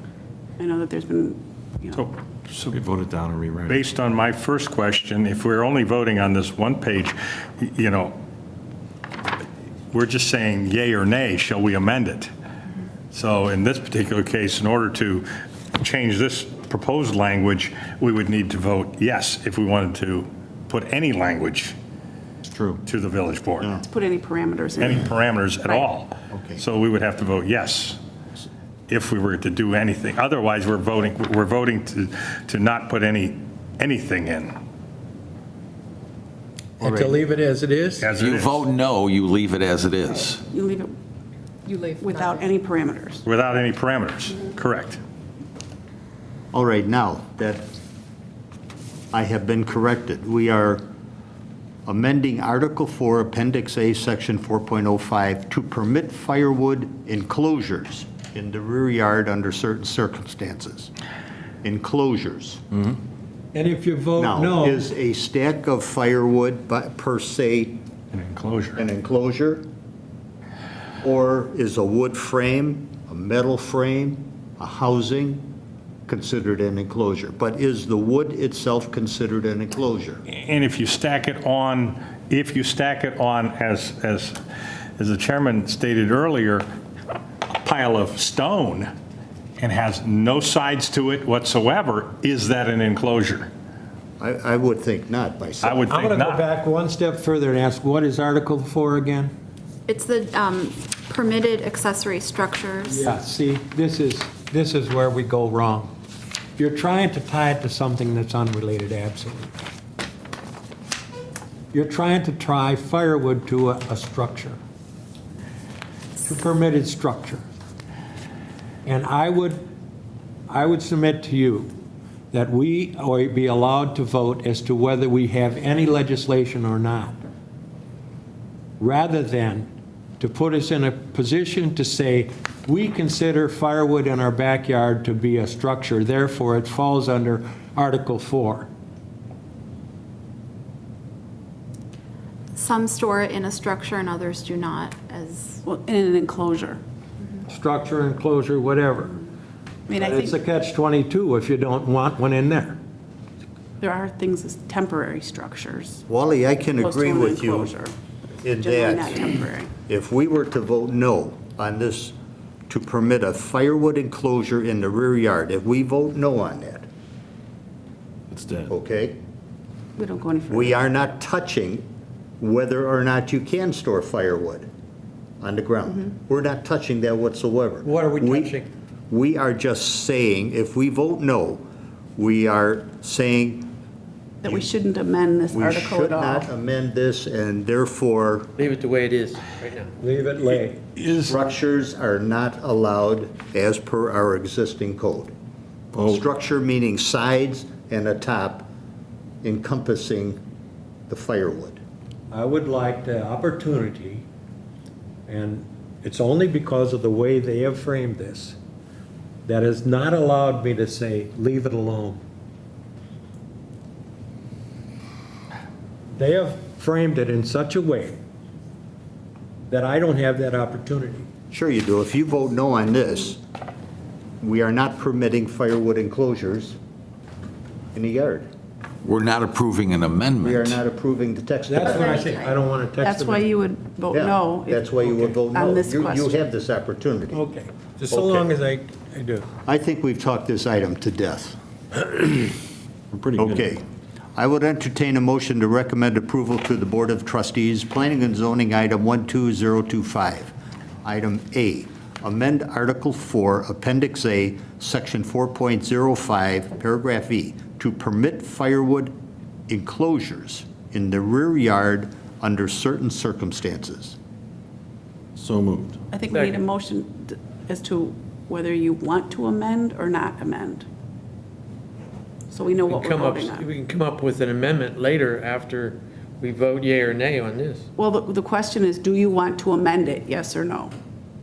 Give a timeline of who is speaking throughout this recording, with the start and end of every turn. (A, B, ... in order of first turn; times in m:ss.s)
0:00.6-0:02.1 A
0:01.9-0:02.8 B
0:02.7-0:03.9 C
0:03.7-0:08.2 B
0:09.9-0:12.3 B
0:13.1-0:15.3 B
0:15.8-0:21.7 B
0:22.8-0:23.8 B
0:23.6-0:23.8 D
0:23.8-0:25.1 A
0:24.8-0:28.0 B
0:25.6-0:25.9 A
0:26.3-0:26.6 D
0:28.9-0:34.6 B
0:36.8-0:38.1 E
0:38.0-0:38.7 B
0:38.1-0:40.4 F
0:40.2-0:40.9 A
0:41.7-0:42.5 G
0:41.8-0:43.2 A
0:43.2-0:45.0 B
0:46.5-0:47.6 D
0:49.1-0:50.8 D
0:51.8-1:00.9 D
1:01.6-1:02.6 D
1:03.5-1:04.8 E
1:04.2-1:07.8 D
1:08.1-1:08.8 B
1:08.8-1:09.7 D
1:11.0-1:15.5 D
1:16.1-1:20.2 D
1:20.3-1:24.4 B
1:25.0-1:26.6 B
1:27.5-1:28.9 B
1:29.6-1:33.5 B
1:34.2-1:35.9 D
1:35.6-1:36.4 B
1:35.9-1:39.3 E
1:39.8-1:43.0 G
1:42.9-1:45.9 E
1:46.6-1:49.5 E
1:51.7-1:54.6 E
1:56.2-1:57.4 E
1:58.8-1:59.6 E
2:00.5-2:01.7 E
2:02.3-2:07.2 E
2:08.8-2:18.7 E
2:22.5-2:25.6 G
2:25.6-2:26.8 A
2:27.5-2:29.2 E
2:29.9-2:30.4 A
2:29.9-2:32.8 E
2:33.8-2:36.0 A
2:36.1-2:37.7 D
2:36.8-2:37.9 A
2:38.4-2:39.2 D
2:38.5-2:39.7 A
2:39.8-2:42.1 D
2:42.7-2:46.9 D
2:48.3-2:48.7 C
2:48.7-2:49.2 D
2:50.0-2:50.9 A
2:50.5-2:51.8 D
2:52.4-2:54.7 D
2:55.4-3:01.6 D
2:57.8-2:58.7 E
3:02.2-3:03.7 D
3:04.4-3:06.5 A
3:05.5-3:08.5 D
3:08.6-3:09.9 H
3:10.0-3:11.0 E
3:11.0-3:15.3 D
3:15.9-3:16.2 C
3:16.0-3:18.7 D
3:19.4-3:20.4 D
3:21.1-3:21.8 D
3:22.3-3:24.2 E
3:25.3-3:28.6 E
3:29.4-3:32.2 E
3:36.1-3:38.2 E
3:39.7-3:41.3 E
3:41.5-3:43.4 D
3:44.4-3:46.8 D
3:47.9-3:48.5 D
3:49.0-3:50.8 F
3:50.4-3:52.4 D
3:51.7-3:53.5 E
3:51.8-3:52.6 G
3:53.0-3:56.4 A
3:54.1-3:57.4 D
3:57.3-3:59.5 E
3:58.1-3:58.5 D
3:59.6-4:01.6 D
4:03.1-4:03.6 C
4:03.4-4:03.8 D
4:04.4-4:10.5 D
4:11.0-4:19.1 D
4:19.7-4:24.2 D
4:25.4-4:26.0 C
4:26.1-4:30.8 A
4:26.3-4:26.6 H
4:32.5-4:33.7 A
4:32.9-4:37.9 H
4:38.0-4:40.9 A